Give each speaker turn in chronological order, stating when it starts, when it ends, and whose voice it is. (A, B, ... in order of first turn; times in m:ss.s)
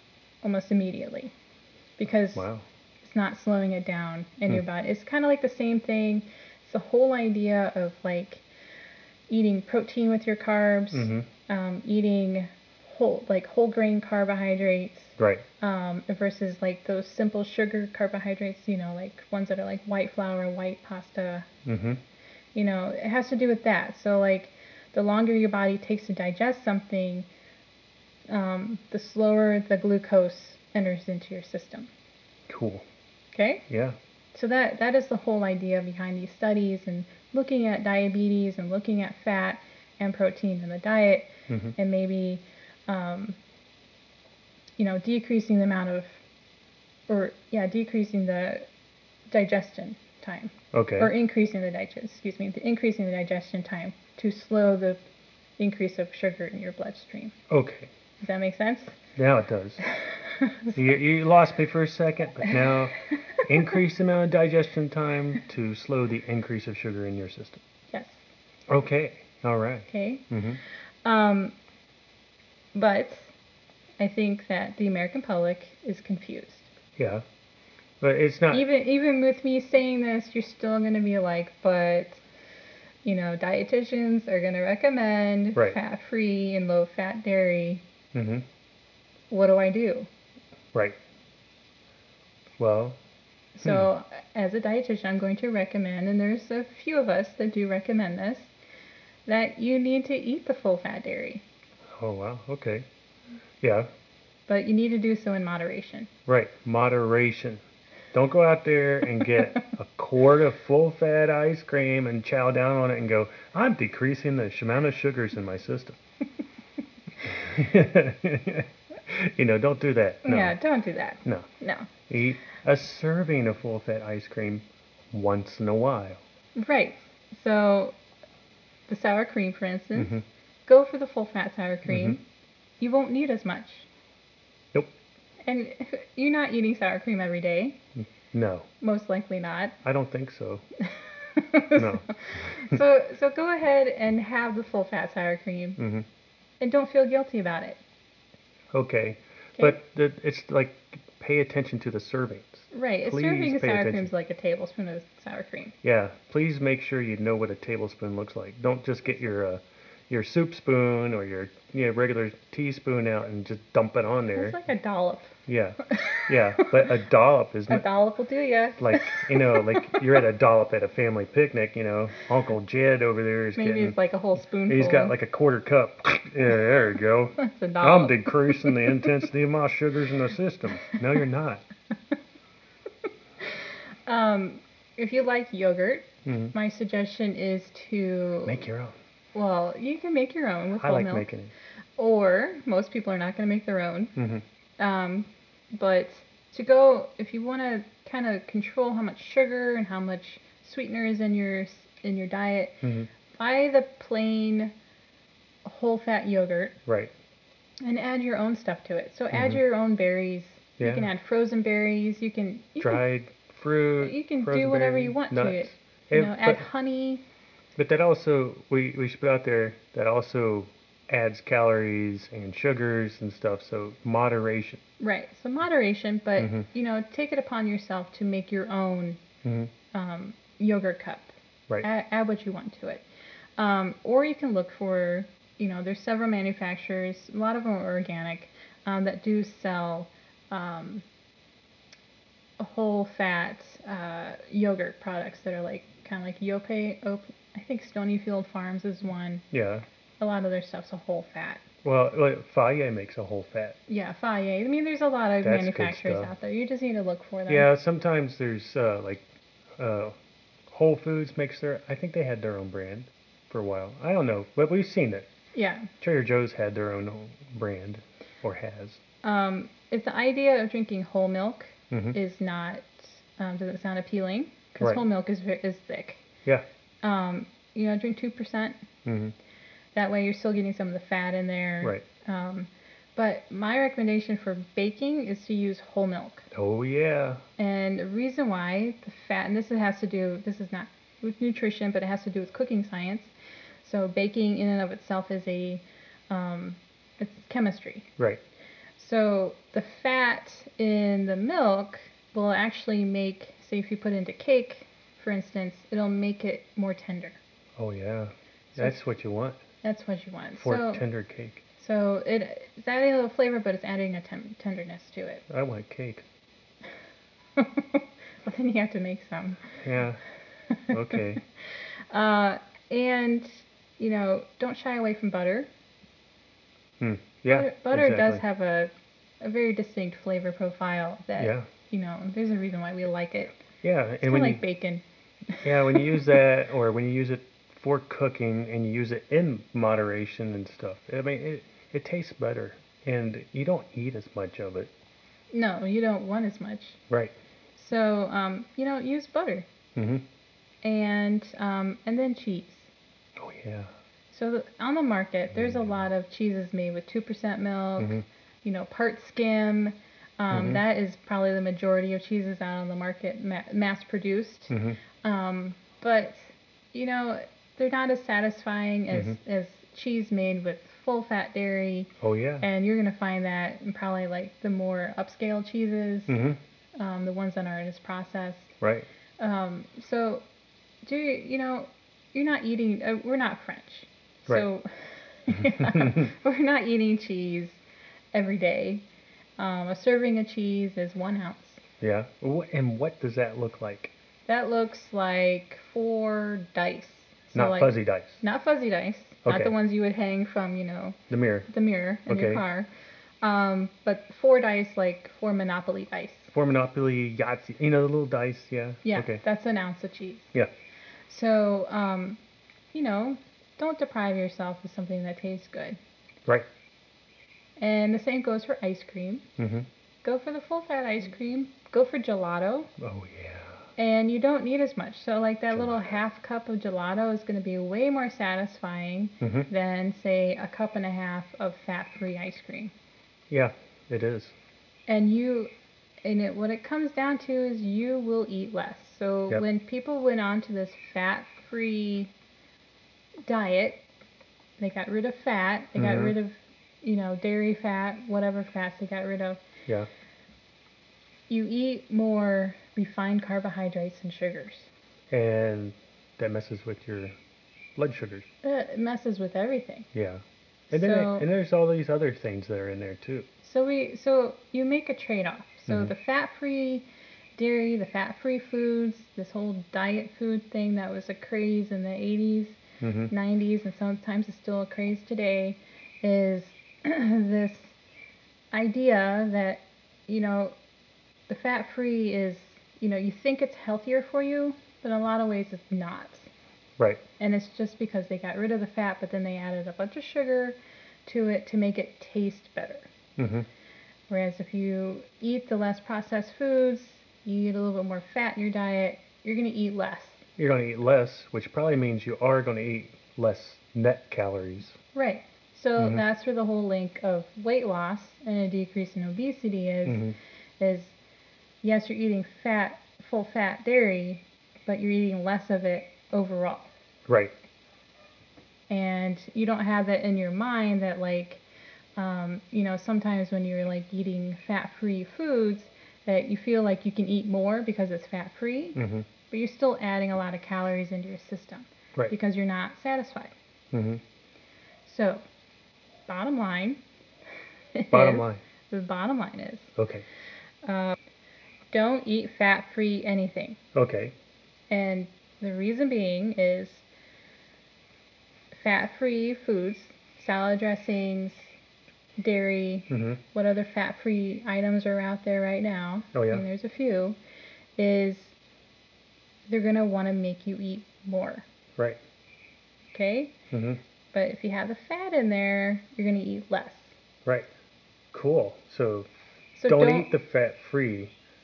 0:00.4-0:01.3 A
0:02.0-0:02.5 A
0:02.3-0:02.6 B
0:03.0-0:08.4 A
0:09.3-0:21.5 A
0:10.9-0:11.3 B
0:15.2-0:15.4 B
0:21.6-0:22.0 B
0:22.5-0:27.3 A
0:28.3-0:31.9 A
0:32.5-0:32.9 B
0:33.4-0:33.6 A
0:33.7-0:34.0 B
0:34.3-0:43.4 A
0:41.5-0:41.8 B
0:44.8-0:46.2 A
0:47.1-0:48.7 A
0:49.3-0:55.0 A
0:50.7-0:51.1 B
0:55.6-0:57.4 A
0:57.5-0:57.9 B
0:58.2-0:59.0 A
0:59.2-0:59.8 B
0:59.9-1:00.8 A
1:00.7-1:07.6 B
1:07.9-1:08.2 A
1:08.7-1:10.6 B
1:09.9-1:10.3 A
1:11.0-1:11.6 A
1:12.8-1:13.3 A
1:14.0-1:16.7 A
1:17.0-1:17.2 B
1:18.0-1:18.6 B
1:18.5-1:22.2 A
1:23.0-1:27.8 A
1:28.1-1:28.4 B
1:29.3-1:30.1 A
1:32.6-1:33.0 B
1:33.6-1:38.5 A
1:39.3-1:41.4 A
1:42.0-1:42.9 B
1:43.6-1:43.9 B
1:44.5-1:46.1 A
1:46.3-1:47.6 B
1:48.1-1:56.0 B
1:57.2-2:00.6 B
2:00.2-2:01.9 A
2:02.1-2:06.2 B
2:06.6-2:08.0 A
2:08.9-2:12.2 A
2:10.0-2:10.2 B
2:11.9-2:12.2 B
2:12.8-2:13.9 A
2:15.4-2:17.8 A
2:18.0-2:18.7 B
2:18.8-2:19.8 A
2:19.8-2:20.6 B
2:21.4-2:25.8 A
2:21.7-2:22.8 B
2:25.8-2:26.1 B
2:26.6-2:27.8 A
2:28.7-2:34.1 B
2:32.7-2:35.8 A
2:35.8-2:44.6 B
2:44.4-2:45.4 A
2:45.5-2:47.9 B
2:45.9-2:46.8 A
2:47.7-2:50.0 A
2:48.8-2:54.0 B
2:53.6-2:55.1 A
2:54.7-3:01.6 B
2:57.4-2:58.9 A
3:03.4-3:08.6 A
3:06.2-3:06.5 B
3:08.4-3:09.0 B
3:09.4-3:11.3 A
3:10.8-3:11.5 B
3:12.0-3:14.1 A
3:14.2-3:14.4 B
3:14.8-3:22.8 A
3:22.8-3:23.1 B
3:23.4-3:24.7 A
3:25.6-3:26.8 A
3:26.9-3:27.1 B
3:27.8-3:33.0 A
3:29.3-3:29.6 B
3:30.8-3:31.1 B
3:32.8-3:36.6 B
3:34.0-3:37.2 A
3:37.8-3:44.8 B
3:45.0-3:49.2 A
3:46.4-3:46.6 B
3:49.4-3:49.7 B
3:49.9-3:53.1 A
3:53.6-4:01.0 A
4:02.6-4:09.4 A
4:09.5-4:09.9 B
4:10.2-4:11.6 A
4:11.8-4:13.8 B
4:13.9-4:17.7 A
4:15.4-4:16.3 B
4:17.5-4:19.2 B
4:19.8-4:20.1 B
4:20.7-4:25.3 B
4:25.6-4:25.9 A
4:26.0-4:29.0 B
4:29.2-4:36.2 A
4:31.9-4:32.2 B
4:34.8-4:35.0 B
4:37.0-4:38.8 A
4:39.0-4:39.4 B
4:39.9-4:46.5 A
4:46.5-4:47.4 B
4:47.6-4:53.3 A
4:53.8-4:58.1 A
4:59.0-5:07.4 A
5:07.8-5:09.6 B
5:09.8-5:11.0 A
5:10.6-5:11.6 B
5:11.8-5:15.4 A
5:15.5-5:16.2 B
5:17.6-5:19.8 A
5:19.8-5:20.2 B
5:20.7-5:21.2 A
5:20.9-5:21.4 B
5:22.1-5:25.7 A
5:27.0-5:28.4 B
5:27.5-5:33.6 A
5:31.4-5:31.7 B
5:33.8-5:34.6 B
5:34.2-5:36.4 A
5:35.6-5:44.9 B
5:45.5-5:47.0 A
5:47.1-5:47.3 B
5:47.8-5:49.7 A
5:49.9-5:50.2 B
5:50.8-5:52.9 A
5:53.4-5:53.9 B
5:54.3-6:16.4 A
5:55.5-5:56.0 B
5:58.0-5:58.2 B
6:00.5-6:00.8 B
6:04.7-6:05.0 B
6:09.1-6:09.4 B
6:12.2-6:12.6 B
6:16.3-6:16.6 B
6:17.0-6:18.7 A
6:18.8-6:19.1 B
6:19.4-6:20.4 A
6:21.0-6:24.9 A
6:25.4-6:27.8 A
6:25.5-6:26.3 B
6:28.3-6:29.0 A
6:29.6-6:31.8 A
6:32.0-6:34.1 B
6:34.5-6:41.2 A
6:37.5-6:38.4 B
6:39.4-6:39.7 B
6:41.3-6:41.7 B
6:41.7-6:42.9 A
6:42.3-6:42.6 B
6:43.4-6:46.5 A
6:46.5-6:49.4 B
6:49.0-6:50.5 A
6:51.3-6:52.4 A
6:52.9-6:56.0 A
6:57.8-6:59.5 A
6:59.6-6:59.9 B
7:00.2-7:02.9 A
7:03.0-7:03.8 B
7:04.0-7:12.9 A
7:05.7-7:06.1 B
7:09.4-7:09.7 B
7:13.5-7:14.6 B
7:15.1-7:15.7 A
7:16.2-7:22.3 A
7:23.4-7:24.1 A
7:24.8-7:29.6 A
7:26.0-7:26.4 B
7:31.5-7:34.9 A
7:35.3-7:37.4 B
7:38.0-7:38.4 B
7:38.6-7:40.1 A
7:40.1-7:43.5 B
7:40.9-7:41.5 A
7:43.6-7:47.1 A
7:45.9-7:46.1 B
7:47.6-7:52.8 A
7:53.0-7:53.3 B
7:53.3-7:58.0 A
7:58.7-8:00.7 A
8:01.5-8:06.5 A
8:07.4-8:13.1 A
8:13.4-8:13.7 B
8:14.3-8:20.4 A
8:20.6-8:25.0 B
8:25.1-8:31.1 A
8:30.1-8:30.4 B
8:31.8-8:36.9 A
8:37.3-8:37.5 B
8:38.9-8:41.6 A
8:42.2-8:49.0 A
8:49.0-8:49.3 B
8:49.5-8:53.5 A
8:53.9-8:54.2 B
8:55.1-8:55.4 A
8:56.3-8:57.0 A
8:57.9-8:59.9 A
8:58.1-8:58.6 B
9:00.0-9:00.2 B
9:00.8-9:01.2 A
9:01.9-9:03.8 A
9:03.9-9:04.4 B
9:04.9-9:07.0 A
9:08.7-9:11.7 A
9:12.4-9:17.4 A
9:13.1-9:13.4 B
9:16.3-9:16.6 B
9:18.0-9:18.6 A
9:19.7-9:21.6 A
9:23.1-9:23.6 A
9:23.7-9:24.0 B
9:24.3-9:27.1 A
9:28.3-9:29.3 B
9:29.8-9:30.3 A
9:29.9-9:31.3 B